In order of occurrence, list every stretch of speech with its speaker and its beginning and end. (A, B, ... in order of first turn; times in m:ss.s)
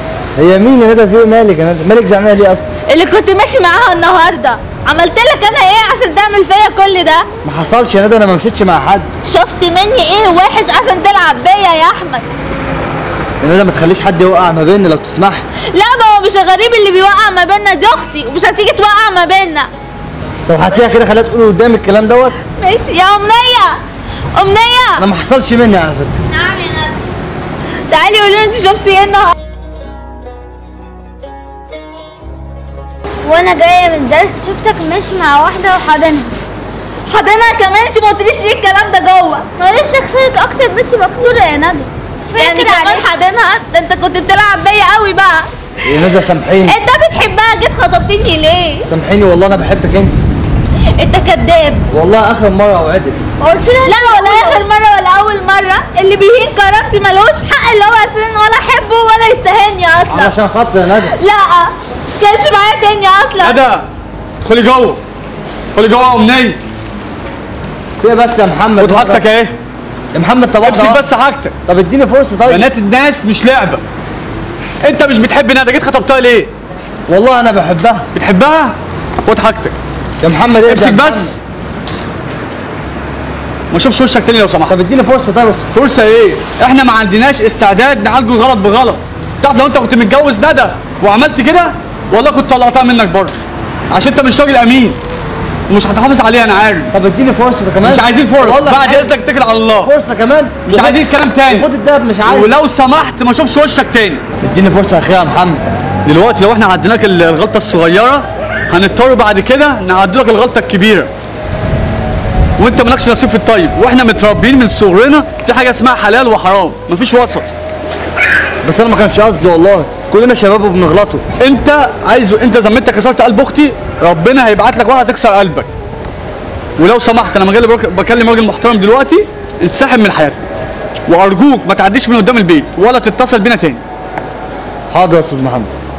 0:00.4-0:02.6 A
0:02.9-0:07.3 B
0:07.4-0:09.1 A
0:09.2-0:12.2 B
0:13.4-0:15.4 A
0:15.7-0:19.7 B
0:20.5-0:22.4 A
0:22.6-0:23.8 B
0:24.3-0:25.0 B
0:25.0-0:26.2 A
0:26.3-0:27.0 C
0:27.9-0:29.3 B
0:33.2-0:36.3 C
0:37.1-0:39.4 B
0:39.6-0:43.1 C
0:42.4-0:46.1 B
0:45.8-0:46.8 A
0:46.6-0:48.9 B
0:48.8-0:50.2 A
0:51.0-0:51.8 B
0:51.9-0:53.2 A
0:53.4-0:54.6 C
0:53.8-1:00.3 B
1:00.1-1:01.1 A
1:01.0-1:03.6 B
1:03.4-1:03.8 D
1:04.4-1:05.0 D
1:05.7-1:06.6 D
1:08.0-1:09.2 A
1:08.8-1:09.6 D
1:10.1-1:11.1 A
1:10.6-1:11.5 D
1:11.6-1:12.7 A
1:12.4-1:13.8 D
1:14.8-1:16.5 D
1:17.1-1:18.1 A
1:18.1-1:19.8 D
1:20.2-1:21.4 A
1:20.6-1:21.4 D
1:23.7-1:24.8 D
1:24.7-1:25.7 A
1:25.7-1:33.4 D
1:33.9-1:35.0 D
1:35.7-1:36.9 D
1:36.9-1:39.2 A
1:37.8-1:39.9 D
1:39.8-1:42.5 A
1:40.6-1:41.7 D
1:42.2-1:44.2 D
1:44.4-1:45.6 A
1:46.0-1:51.1 D
1:52.6-1:57.5 D
1:58.6-2:01.2 A
2:01.4-2:05.7 D
2:06.8-2:10.4 D
2:11.1-2:13.8 D
2:14.9-2:15.7 A